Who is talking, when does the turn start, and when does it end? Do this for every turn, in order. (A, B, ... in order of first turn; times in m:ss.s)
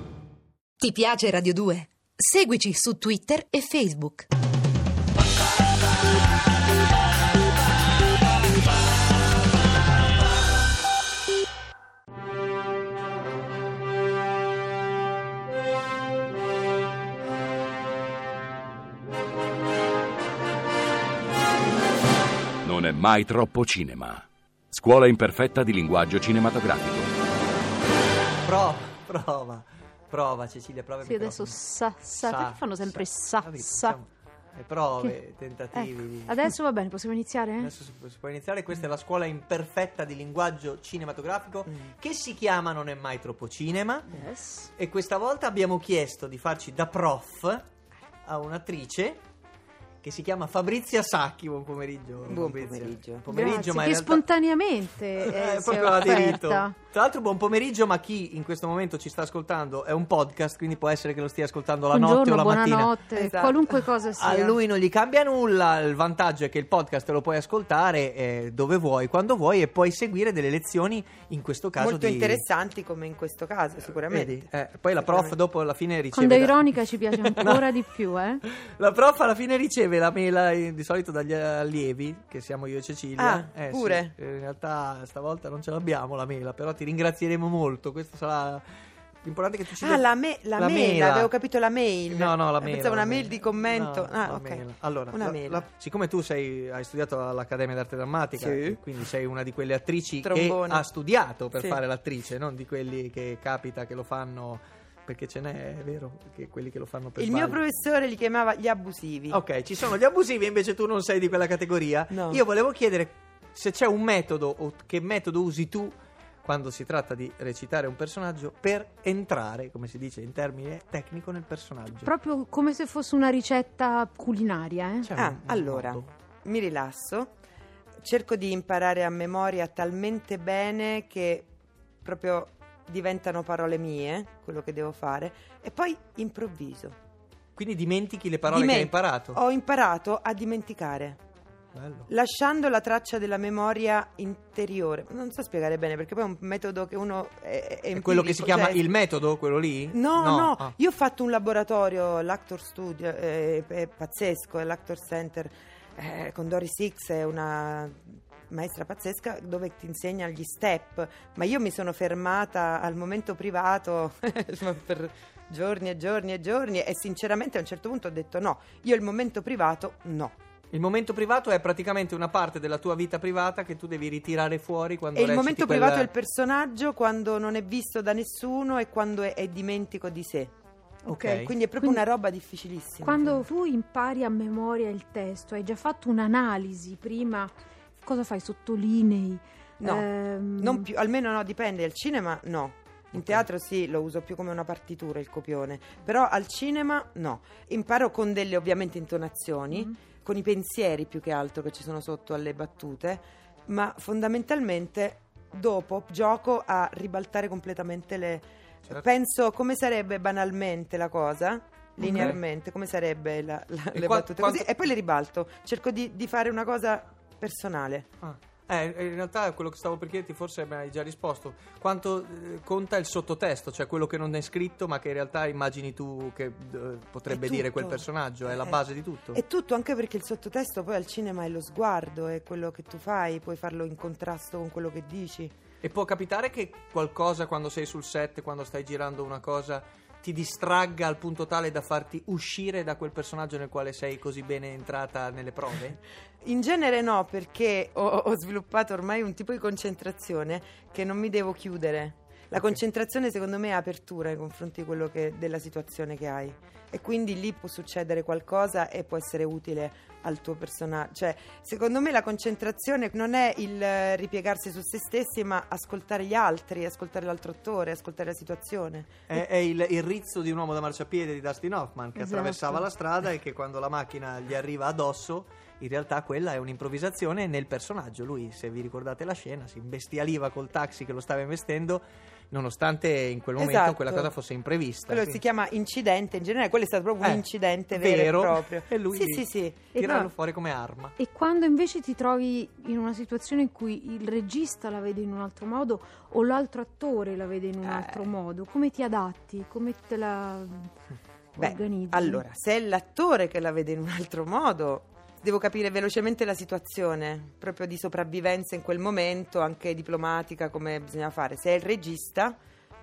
0:00.8-0:04.3 A
0:22.6-0:27.1 B
0:28.4-0:31.6 C
0:31.0-0:34.0 D
0:32.1-0:36.4 C
0:35.7-0:37.7 D
0:37.6-0:44.1 C
0:44.1-0:44.7 D
0:44.8-0:47.6 C
0:48.2-0:49.2 C
0:50.0-0:54.2 C
0:52.2-0:53.3 E
0:53.3-0:56.7 D
0:55.2-1:03.0 C
1:01.9-1:04.6 D
1:03.2-1:03.6 E
1:04.2-1:12.4 C
1:11.8-1:15.4 E
1:14.0-1:17.8 C
1:16.1-1:18.4 D
1:18.5-1:28.6 C
1:23.2-1:24.1 E
1:29.2-1:31.3 C
1:29.8-1:35.7 E
1:32.1-1:47.6 C
1:38.3-1:38.8 E
1:40.2-1:40.9 E
1:47.2-1:49.4 E
1:49.3-2:02.1 C
1:52.1-1:52.4 E
2:02.0-2:05.1 D
2:05.0-2:06.1 C
2:05.2-2:07.3 E
2:08.0-2:11.5 E
2:12.0-2:17.0 E
2:17.6-2:19.4 C
2:18.5-2:21.2 E
2:21.7-2:22.1 C
2:22.1-2:28.9 E
2:28.0-2:30.7 C
2:29.9-2:50.3 E
2:50.7-2:56.1 C
2:55.1-3:00.5 E
3:01.0-3:02.0 D
3:01.1-3:01.5 C
3:01.3-3:03.4 E
3:03.0-3:10.9 D
3:09.8-3:38.1 E
3:13.1-3:13.4 C
3:32.0-3:32.4 C
3:33.9-3:34.7 C
3:38.2-3:49.4 C
3:47.3-3:55.5 E
3:55.8-4:06.0 C
4:06.4-4:29.3 E
4:29.3-4:45.4 C
4:32.2-4:32.8 D
4:43.6-4:44.3 E
4:45.1-4:50.0 E
4:47.2-4:51.2 C
4:49.9-4:50.3 D
4:51.2-5:00.9 D
4:57.8-4:58.2 E
5:01.5-5:02.4 D
5:01.6-5:12.6 E